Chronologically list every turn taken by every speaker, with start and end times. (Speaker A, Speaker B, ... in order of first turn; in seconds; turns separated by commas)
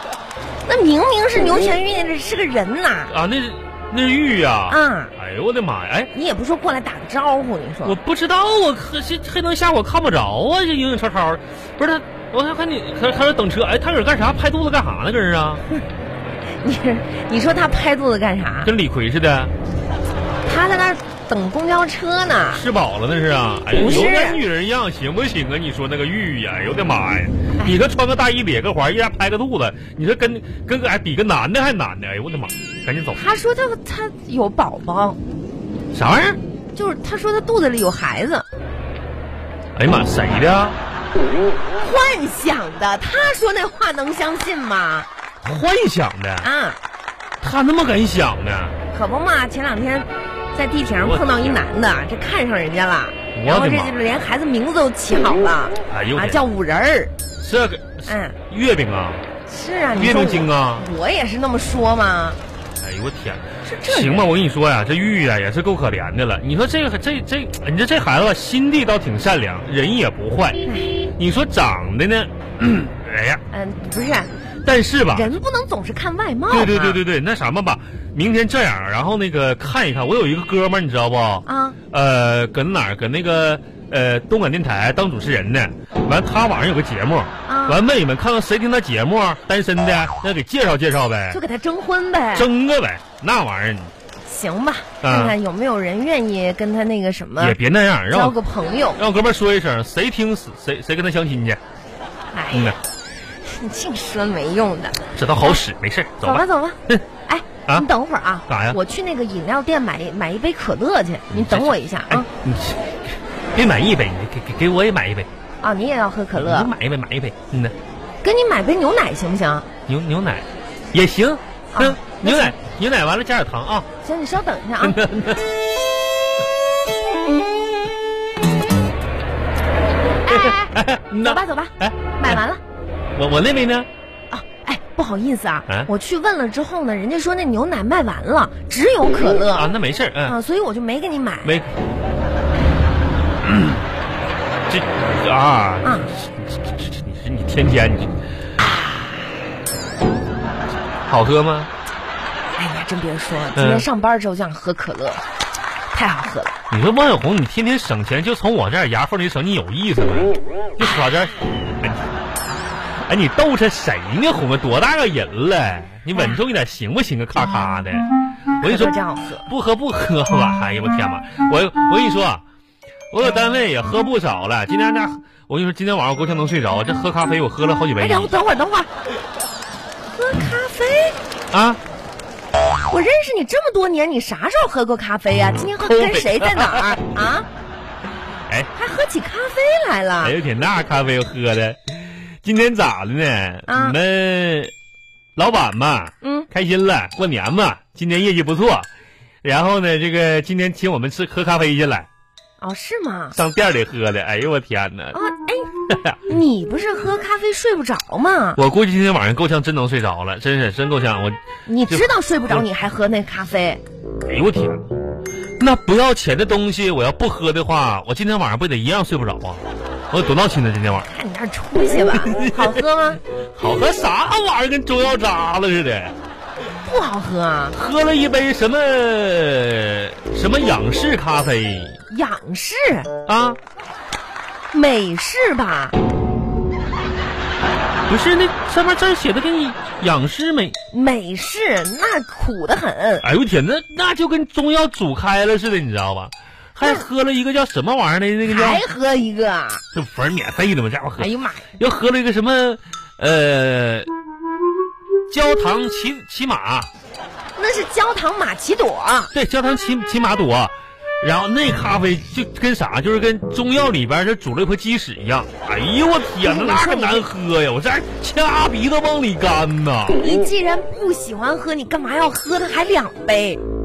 Speaker A: 0.7-3.1, Speaker B: 3.1-6.1, Speaker A: 4.7-5.1, Speaker A: 6.1-8.0, Speaker B: 7.8-15.6, Speaker A: 16.6-18.7, Speaker B: 18.6-19.5, Speaker A: 20.4-22.6, Speaker B: 22.5-33.2, Speaker A: 23.7-24.4, Speaker A: 33.1-35.2, Speaker B: 35.9-36.4, Speaker A: 36.8-38.5, Speaker B: 39.8-40.8, Speaker A: 41.8-45.1, Speaker B: 45.4-46.5, Speaker A: 46.4-46.8, Speaker B: 47.4-48.8, Speaker A: 48.9-57.1, Speaker B: 51.0-51.7, Speaker B: 53.4-54.0, Speaker B: 55.9-56.4, Speaker B: 57.4-59.3, Speaker A: 58.1-58.4, Speaker A: 59.5-62.4, Speaker B: 60.0-60.9, Speaker B: 62.8-70.7, Speaker A: 63.6-64.3, Speaker A: 70.7-71.0, Speaker B: 71.2-73.4, Speaker A: 73.5-74.3, Speaker B: 74.7-75.3, Speaker A: 75.1-77.0, Speaker B: 76.5-91.4, Speaker A: 81.5-81.8, Speaker A: 87.5-87.8, Speaker A: 91.3-92.5, Speaker B: 92.3-93.9, Speaker A: 94.2-97.6, Speaker B: 95.0-95.4, Speaker B: 97.4-98.4, Speaker A: 98.1-99.0, Speaker B: 99.0-101.6, Speaker A: 102.3-102.8, Speaker A: 103.4-105.6, Speaker B: 105.2-107.0, Speaker A: 106.2-112.3, Speaker B: 108.5-108.8, Speaker B: 111.3-113.0, Speaker B: 113.5-115.3, Speaker A: 115.6-116.7, Speaker B: 116.3-117.8, Speaker A: 118.2-119.7, Speaker B: 119.9-123.9, Speaker A: 121.7-122.5, Speaker A: 124.0-125.0, Speaker B: 124.8-125.5, Speaker A: 130.2-132.6, Speaker B: 130.3-132.4, Speaker B: 133.1-133.9, Speaker A: 134.3-139.7, Speaker B: 139.5-140.4, Speaker A: 140.2-141.5, Speaker B: 141.4-141.8, Speaker B: 143.4-143.8, Speaker B: 144.7-148.2, Speaker A: 145.8-146.1, Speaker B: 151.1-151.7, Speaker A: 152.5-155.2, Speaker B: 153.6-153.9, Speaker A: 155.9-156.6, Speaker B: 156.7-162.1, Speaker B: 163.1-168.1, Speaker A: 166.1-166.4, Speaker B: 168.6-168.9, Speaker A: 168.6-169.5, Speaker B: 169.5-172.4, Speaker B: 173.1-178.3, Speaker A: 178.0-178.9, Speaker A: 180.2-181.2, Speaker B: 181.5-181.8, Speaker A: 182.8-187.5, Speaker B: 185.8-187.2, Speaker A: 188.8-190.4, Speaker B: 190.2-194.7, Speaker A: 193.7-194.0, Speaker B: 195.4-198.9, Speaker A: 196.2-196.5, Speaker B: 199.4-202.1, Speaker A: 202.6-203.4, Speaker B: 203.3-205.2, Speaker A: 205.1-205.7, Speaker B: 205.9-206.2, Speaker A: 206.2-208.6, Speaker B: 208.6-212.7, Speaker A: 211.7-213.8, Speaker B: 214.3-214.9, Speaker B: 215.6-221.1, Speaker A: 221.1-223.2, Speaker B: 222.1-226.2, Speaker A: 226.8-227.8, Speaker B: 227.7-232.0, Speaker A: 232.1-233.1, Speaker B: 233.3-233.6, Speaker A: 234.7-236.0, Speaker B: 238.1-240.8, Speaker A: 240.9-243.3, Speaker B: 243.2-248.8, Speaker A: 248.4-249.8, Speaker B: 249.9-254.1, Speaker A: 251.2-251.7, Speaker B: 255.3-256.9, Speaker A: 257.6-259.3, Speaker B: 259.3-270.2, Speaker A: 266.4-267.3, Speaker A: 270.2-273.6